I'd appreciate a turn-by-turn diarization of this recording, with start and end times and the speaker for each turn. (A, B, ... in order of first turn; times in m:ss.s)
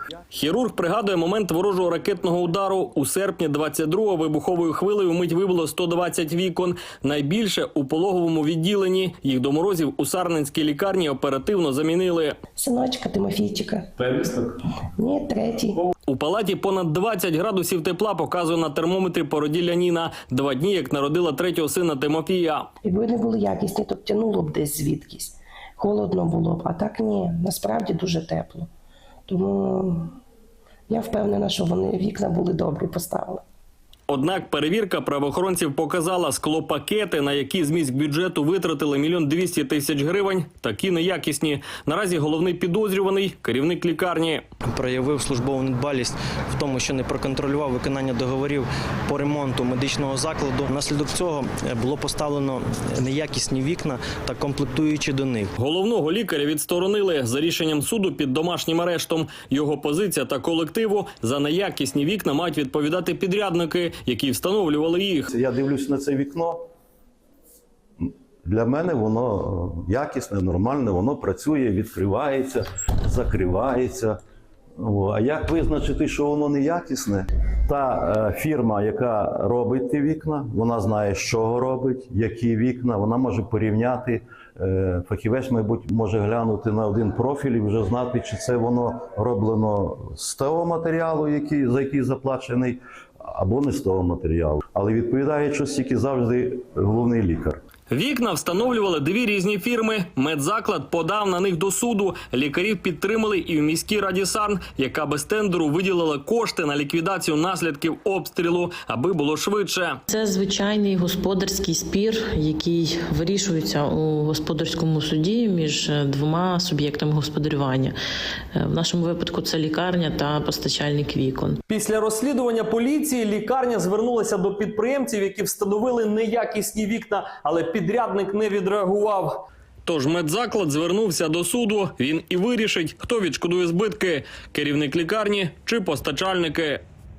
0:00.3-0:12.4 A
0:12.6-0:14.3 B
0:15.0-0:15.8 B
0:16.1-0:22.7 A
0:22.8-0:28.7 B
0:29.3-0:30.1 B
0:30.9-0:33.4 B
0:34.1-0:44.4 A
0:44.7-0:55.5 C
0:55.6-1:05.3 A
1:05.3-1:06.6 D
1:08.0-1:14.2 D
1:14.8-1:37.6 D
1:37.9-1:50.0 A
1:50.1-1:58.0 E
1:58.6-2:01.6 E
2:01.7-2:16.8 A